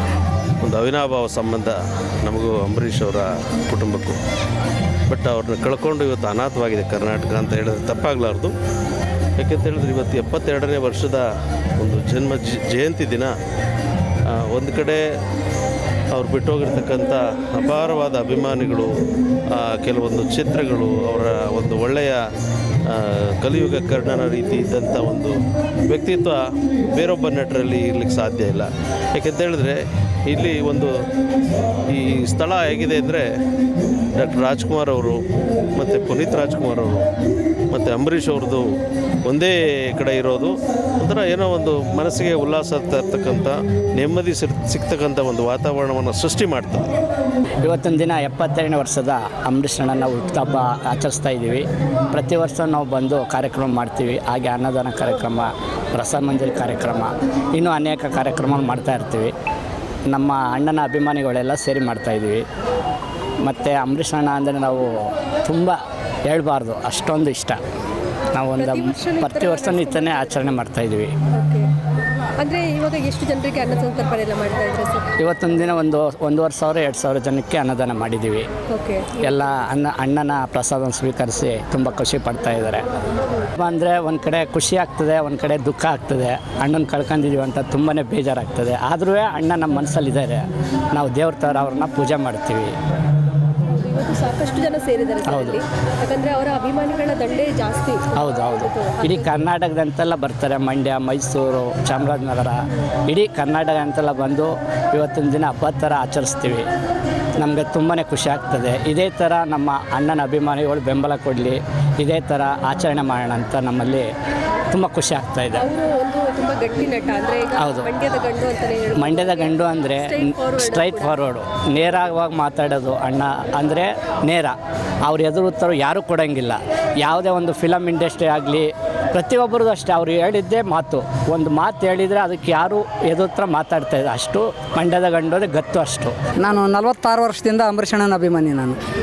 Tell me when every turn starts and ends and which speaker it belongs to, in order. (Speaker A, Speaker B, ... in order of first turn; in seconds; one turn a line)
Speaker A: 0.6-4.2
Speaker A: 5.1-8.5
Speaker A: 9.4-13.3
Speaker A: 14.3-15.0
Speaker A: 16.1-18.9
Speaker A: 19.5-22.2
Speaker A: 22.9-25.4
Speaker A: 25.9-26.4
Speaker A: 26.9-30.9
Speaker A: 31.9-33.3
Speaker A: 34.1-35.2
Speaker A: 35.8-37.1
Speaker A: 37.7-38.7
Speaker A: 39.2-46.9
Speaker B: 47.6-59.3
Speaker B: 60.1-62.4
Speaker B: 63.4-67.6
Speaker B: 68.3-71.1
Speaker C: 68.5-70.5
Speaker C: 71.3-71.7
Speaker C: 72.4-75.1
Speaker B: 75.2-78.5
Speaker C: 78.7-79.3
Speaker B: 79.2-82.8
Speaker B: 83.6-92.8
Speaker C: 93.7-99.4
Speaker B: 95.2-95.6
Speaker B: 98.1-106.7
Speaker B: 107.4-114.1
Speaker B: 114.7-115.7
Speaker C: 115.6-121.2
Speaker B: 117.6-117.9
Speaker B: 118.9-136.2
Speaker D: 136.4-138.8